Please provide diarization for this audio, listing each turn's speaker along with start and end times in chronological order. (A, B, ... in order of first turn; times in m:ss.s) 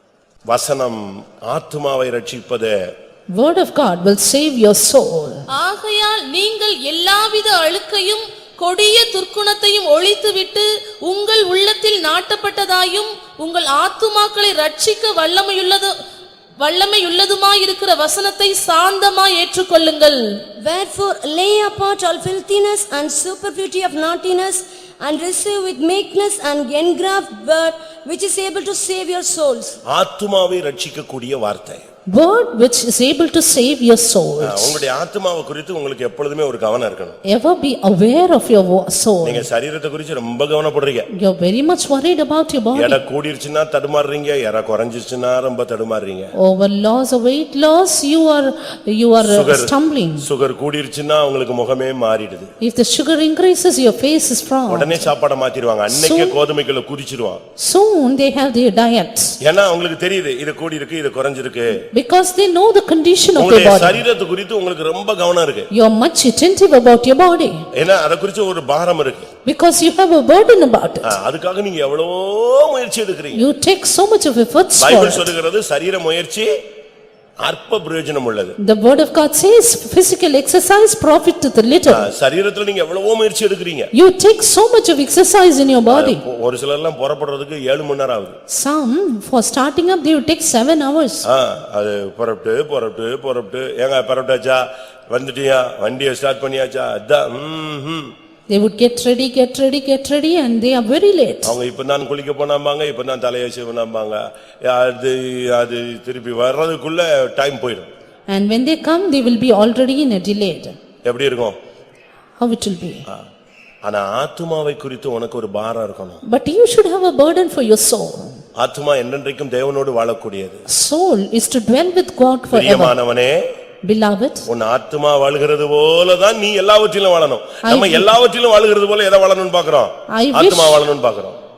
0:00.5-0:02.8 A
0:03.3-0:05.4 B
0:05.5-0:15.9 C
0:16.6-0:20.4 C
0:20.6-0:29.8 D
0:29.9-0:31.8 A
0:32.1-0:34.8 B
0:34.4-0:37.2 A
0:37.3-0:39.5 B
0:39.2-0:41.1 A
0:41.1-0:43.0 B
0:42.8-0:46.3 A
0:46.4-0:50.3 B
0:49.2-0:52.5 A
0:52.6-0:55.1 B
0:54.7-0:57.4 A
0:55.9-0:56.4 B
0:57.6-0:59.4 B
0:59.4-1:01.8 A
1:01.9-1:04.0 B
1:03.4-1:05.7 A
1:05.7-1:07.7 B
1:07.8-1:09.3 A
1:09.4-1:11.2 B
1:11.0-1:13.5 A
1:13.3-1:15.3 B
1:14.8-1:16.6 A
1:17.4-1:18.6 A
1:18.6-1:22.1 B
1:21.9-1:23.9 A
1:23.9-1:26.2 B
1:25.9-1:28.4 A
1:28.5-1:31.2 B
1:31.2-1:38.1 A
1:38.5-1:41.5 B
1:41.4-1:47.9 A
1:48.3-1:50.8 B
1:51.0-1:51.6 A
1:52.4-1:53.0 B
1:53.9-1:56.2 A
1:56.3-1:58.4 B
1:58.6-2:00.6 A
2:00.7-2:03.0 B
2:02.5-2:03.4 A
2:03.8-2:04.5 B
2:04.5-2:11.4 A
2:07.6-2:08.1 B
2:10.2-2:10.8 B